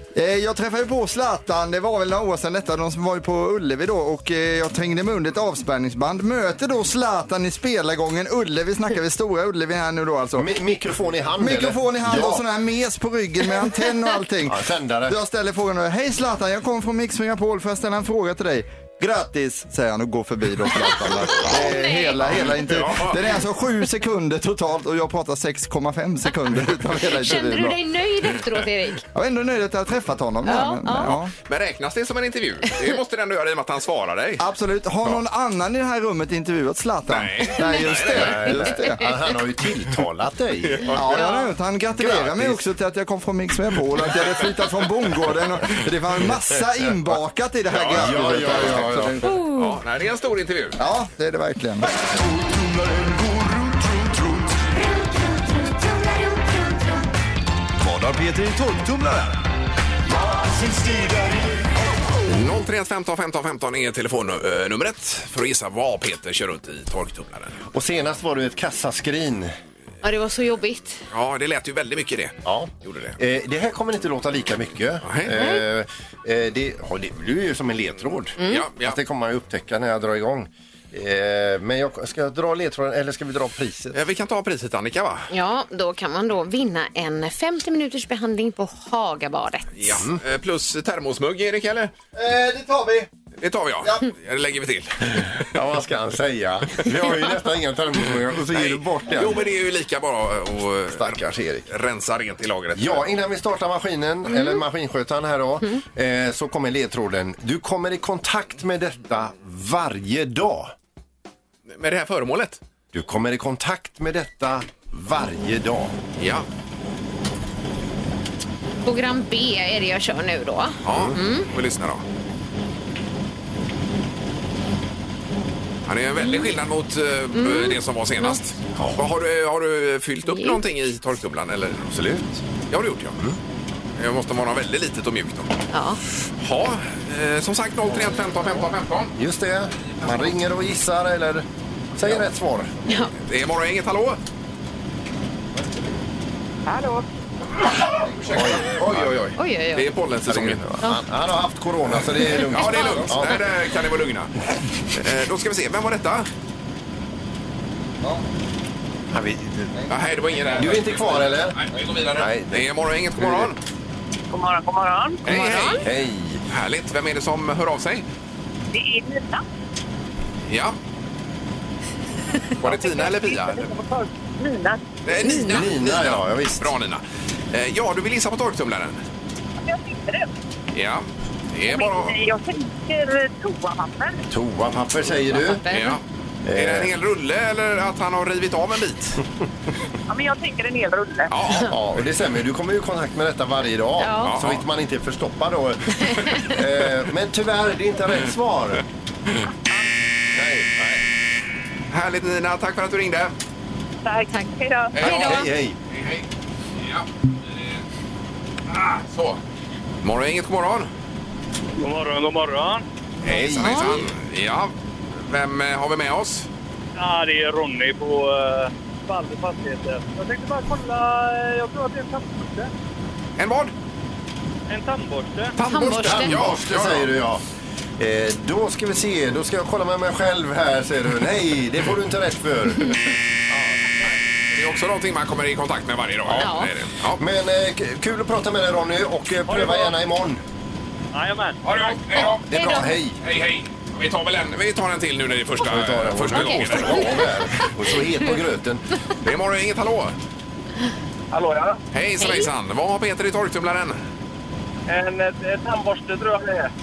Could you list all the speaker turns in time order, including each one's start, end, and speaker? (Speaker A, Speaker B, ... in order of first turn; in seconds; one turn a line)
Speaker A: 0.1-10.5
Speaker B: 10.3-12.4
Speaker A: 11.4-27.8
Speaker B: 14.4-15.2
Speaker C: 21.4-22.4
Speaker D: 22.6-23.2
Speaker C: 27.1-29.0
Speaker A: 29.1-31.3
Speaker C: 30.4-31.1
Speaker D: 31.5-34.4
Speaker A: 34.4-39.1
Speaker D: 37.1-38.6
Speaker B: 38.1-41.0
Speaker D: 40.6-41.1
Speaker A: 40.9-49.4
Speaker C: 41.1-41.5
Speaker B: 42.0-42.6
Speaker B: 47.7-49.2
Speaker D: 47.9-48.6
Speaker C: 49.2-49.8
Speaker D: 49.5-50.8
Speaker A: 50.8-51.9
Speaker E: 52.2-54.5
Speaker E: 57.8-59.4
Speaker E: 60.1-61.6
Speaker D: 62.3-67.6
Speaker B: 67.7-69.5
Speaker C: 70.0-71.0
Speaker D: 71.1-73.2
Speaker B: 72.4-84.0
Speaker D: 75.0-75.4
Speaker C: 75.3-75.6
Speaker C: 78.4-78.7
Speaker D: 78.4-79.0
Speaker D: 83.9-85.3
Speaker C: 85.3-90.0
Speaker D: 89.8-91.9
Speaker A: 92.1-93.1
Speaker D: 93.4-95.5
Speaker B: 95.5-99.4
Speaker D: 98.4-103.0
Speaker B: 100.9-101.7
Speaker B: 102.8-110.7
Speaker C: 104.3-104.6
Speaker D: 111.7-112.6
Speaker B: 112.9-115.9
Speaker D: 116.2-116.5
Speaker C: 118.8-121.5
Speaker D: 120.8-122.0
Speaker D: 125.8-131.9
Speaker C: 127.3-128.4
Speaker B: 128.7-129.0
Speaker C: 130.3-130.6
Speaker B: 131.9-132.4
Speaker D: 132.7-133.2
Speaker D: 134.0-135.6
Speaker C: 135.7-136.0
Speaker D: 136.4-139.1
Speaker B: 139.2-142.7
Speaker D: 140.0-140.3
Speaker D: 143.2-144.2
Speaker F: 146.7-147.0
Speaker A: 148.0-148.4
Speaker D: 148.2-150.7
Speaker B: 148.2-149.1
Speaker C: 149.4-149.8
Speaker B: 150.2-153.4
Speaker D: 152.3-154.3
Speaker D: 154.9-156.3
Speaker B: 159.1-159.7
Speaker D: 159.9-163.6
Speaker B: 160.6-161.6
Speaker B: 162.2-162.7
Speaker B: 163.2-163.5
Speaker F: 164.3-165.6
Speaker D: 165.2-165.9
Speaker C: 165.3-165.8
Speaker B: 165.8-166.4
Speaker D: 166.5-168.1
Speaker F: 168.7-169.4
Speaker D: 170.5-170.8
Speaker D: 172.6-173.7
Speaker F: 172.6-174.8
Speaker D: 175.1-179.0
Speaker C: 175.2-175.7
Speaker B: 175.3-176.7
Speaker F: 179.6-180.3
Speaker D: 180.7-182.2
Speaker F: 181.7-184.2
Speaker B: 184.3-185.6
Speaker C: 185.3-186.0
Speaker D: 185.7-186.0
Speaker B: 186.4-186.9
Speaker D: 186.5-189.2
Speaker F: 190.1-191.3
Speaker D: 191.3-191.7
Speaker B: 191.7-198.8
Speaker C: 194.0-194.3
Speaker D: 194.2-194.6
Speaker C: 196.0-196.6
Speaker B: 200.3-200.7
Speaker D: 201.9-203.3
Speaker F: 204.0-205.2
Speaker D: 204.9-206.2
Speaker C: 205.0-205.5
Speaker B: 205.0-205.8
Speaker D: 206.8-207.1
Speaker D: 208.7-209.4
Speaker D: 210.0-210.9
Speaker G: 211.8-212.8
Speaker B: 213.2-213.7
Speaker D: 213.2-216.5
Speaker C: 213.6-214.1
Speaker G: 217.0-222.7
Speaker D: 223.4-223.7
Speaker G: 224.7-225.5
Speaker D: 225.6-227.1
Speaker C: 225.7-226.4
Speaker B: 225.7-227.4
Speaker B: 228.0-233.1
Speaker D: 234.5-237.2
Speaker B: 236.2-236.6
Speaker C: 236.4-236.7
Speaker B: 237.2-240.4
Speaker G: 239.5-239.9
Speaker G: 241.1-242.0
Speaker D: 241.6-247.3
Speaker B: 242.2-243.2
Speaker C: 242.5-242.9
Speaker B: 245.6-248.8
Speaker C: 246.3-247.7
Speaker D: 249.2-250.1
Speaker G: 251.3-251.8
Speaker D: 251.9-254.0
Speaker C: 252.2-252.5
Speaker G: 254.9-256.7